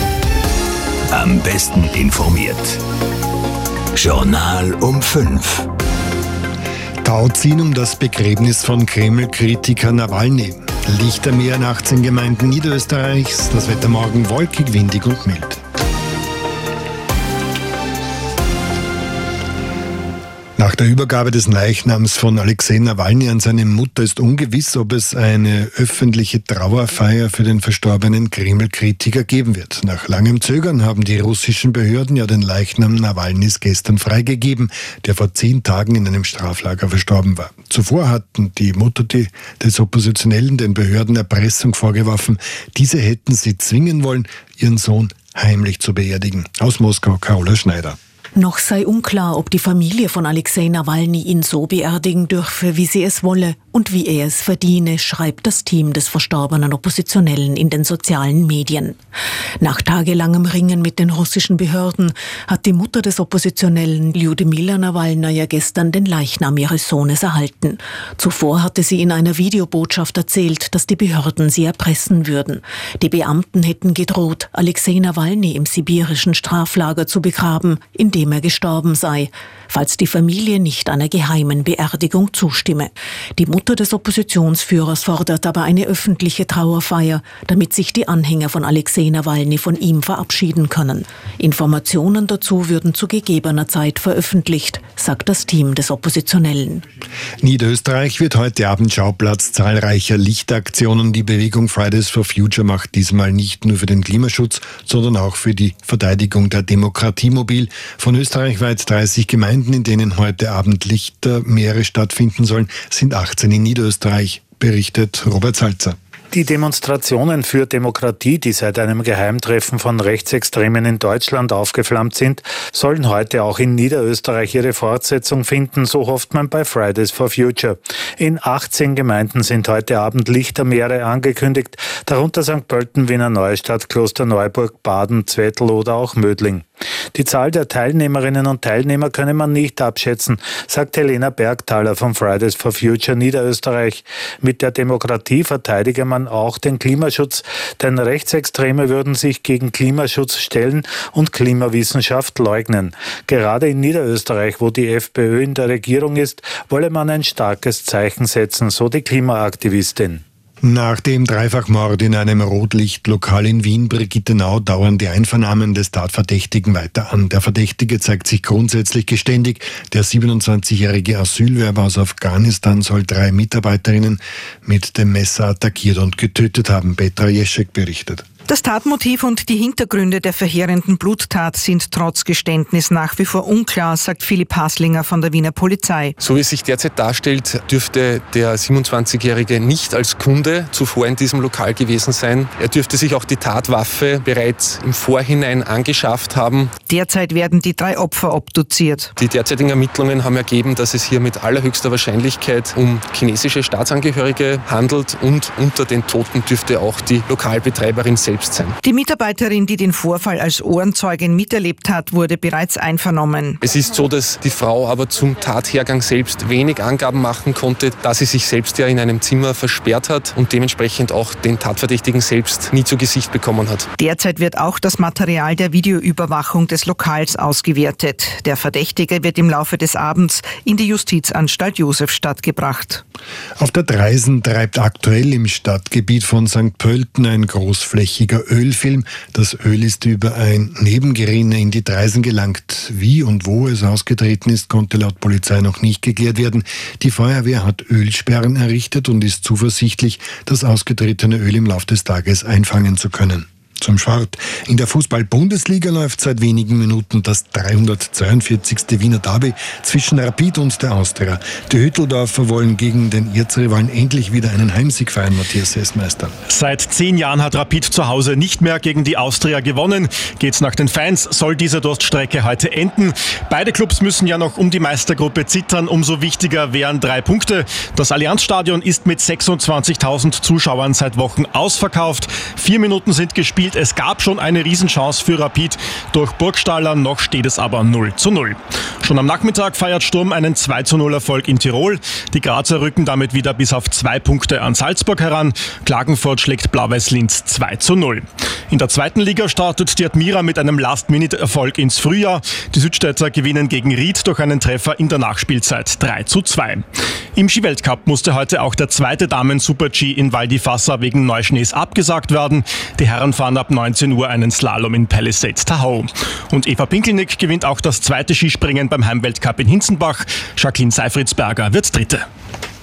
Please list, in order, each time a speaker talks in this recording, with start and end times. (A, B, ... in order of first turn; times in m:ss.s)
0:01.1-0:02.7 A
0:04.0-0:05.5 A
0:07.0-0:15.6 B
0:20.6-0:48.0 B
0:48.3-0:59.0 C
0:59.6-1:36.8 C
1:37.4-1:56.0 B
1:56.3-2:40.2 D
2:40.6-2:58.2 B
2:58.5-3:06.1 E
3:06.2-3:16.7 F
3:16.9-3:19.1 E
3:19.2-3:28.8 F
3:28.8-3:33.6 E
3:33.6-3:43.9 F
3:44.0-3:53.0 E
3:53.6-4:26.3 B
4:26.5-5:06.8 G
5:07.4-5:22.2 G